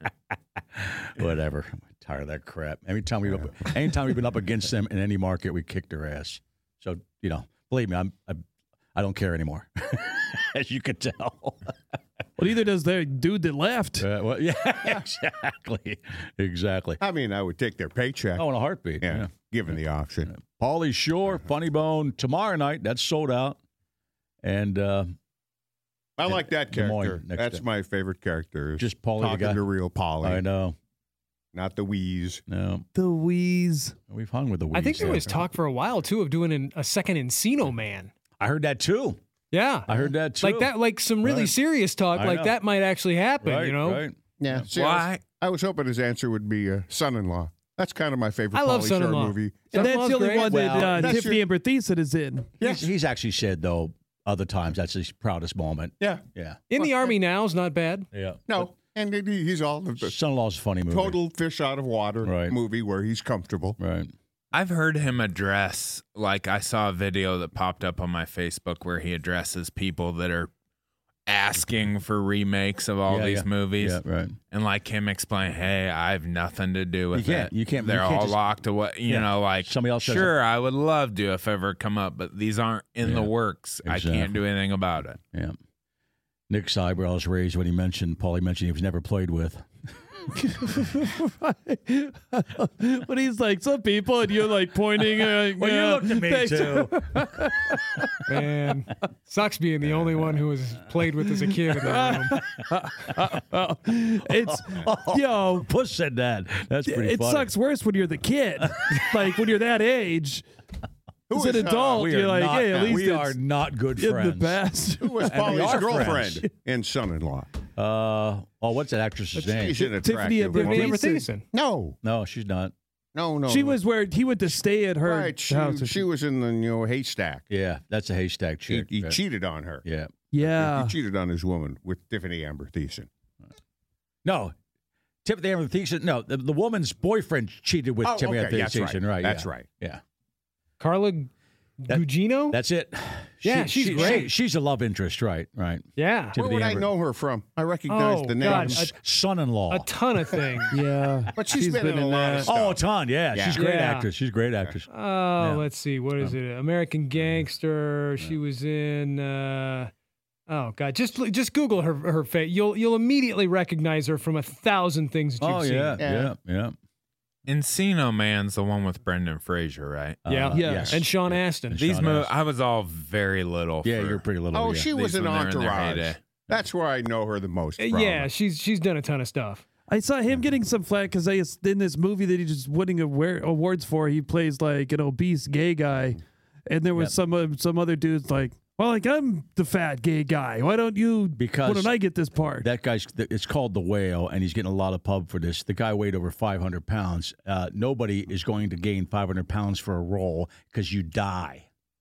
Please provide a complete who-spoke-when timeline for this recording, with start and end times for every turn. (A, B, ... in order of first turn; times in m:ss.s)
0:00.8-0:08.4 A
0:08.9-0:11.7 A
0:12.4-0:14.0 B
0:14.0-0:17.0 A
0:17.0-0:18.5 C
0:18.4-0:23.6 A
0:19.0-0:20.3 C
0:24.4-0:25.1 A
0:26.2-0:30.4 C
0:26.2-0:27.6 A
0:28.8-0:29.6 A
0:30.2-0:30.8 A
0:31.5-0:32.4 C
0:32.5-0:32.8 A
0:32.9-0:34.0 B
0:34.1-0:35.5 A
0:34.7-0:38.1 D
0:38.4-0:39.2 A
0:39.5-0:44.1 D
0:39.8-0:41.5 A
0:42.1-0:42.5 A
0:43.4-0:44.7 A
0:44.4-0:51.4 C
0:44.7-0:45.2 E
0:48.5-0:50.6 D
0:49.7-0:52.5 B
0:50.5-0:51.2 A
0:52.6-0:52.9 C
0:52.6-0:56.6 A
0:56.7-0:58.1 D
0:56.8-0:57.1 C
0:58.1-0:58.7 A
0:58.5-1:00.1 C
1:00.0-1:01.2 A
1:00.9-1:03.8 C
1:02.2-1:02.6 A
1:03.8-1:04.1 A
1:04.5-1:10.5 E
1:11.3-1:25.2 E
1:13.1-1:14.3 A
1:17.1-1:18.5 A
1:19.1-1:20.3 A
1:23.0-1:24.4 A
1:26.5-1:29.6 A
1:30.4-1:38.4 B
1:35.0-1:37.2 A
1:38.3-1:42.4 D
1:39.9-1:40.2 A
1:41.6-1:45.6 B
1:44.2-1:47.5 A
1:46.9-1:50.4 B
1:48.6-1:48.9 A
1:51.3-1:52.2 C
1:51.3-1:53.4 B
1:52.0-1:54.6 A
1:54.0-1:56.5 B
1:55.0-1:57.5 C
1:55.4-1:56.3 A
1:55.6-1:55.9 D
1:57.8-1:59.8 A
1:59.4-1:59.7 D
1:59.4-2:02.0 C
1:59.8-2:01.3 B
2:00.5-2:01.5 D
2:02.0-2:02.7 A
2:03.1-2:03.8 C
2:03.5-2:06.0 B
2:05.0-2:07.5 C
2:07.5-2:09.2 A
2:08.7-2:09.8 C
2:09.8-2:10.1 A
2:10.3-2:11.0 B
2:10.4-2:13.1 C
2:14.2-2:14.5 A
2:15.2-2:20.0 A
2:18.0-2:19.7 C
2:20.8-2:21.3 D
2:21.8-2:22.6 D
2:21.9-2:25.8 A
2:23.4-2:24.3 D
2:24.0-2:24.2 C
2:26.0-2:26.4 D
2:26.3-2:28.9 C
2:26.4-2:26.9 A
2:27.9-2:28.9 D
2:28.4-2:30.3 A
2:29.7-2:30.8 D
2:30.7-2:32.5 B
2:31.3-2:33.6 C
2:32.4-2:35.6 A
2:33.5-2:34.1 D
2:34.9-2:39.9 D
2:37.2-2:37.4 A
2:40.5-2:46.0 D
2:45.4-2:46.7 A
2:46.0-2:46.3 C
2:47.5-2:50.2 E
2:50.2-2:51.9 D
2:50.2-2:52.3 A
2:50.5-2:51.0 B
2:51.8-2:54.2 E
2:53.8-2:54.9 A
2:54.5-2:58.3 C
2:54.9-2:56.2 E
2:57.8-2:59.6 D
2:59.9-3:12.7 B
3:11.4-3:12.0 A
3:12.6-3:21.6 A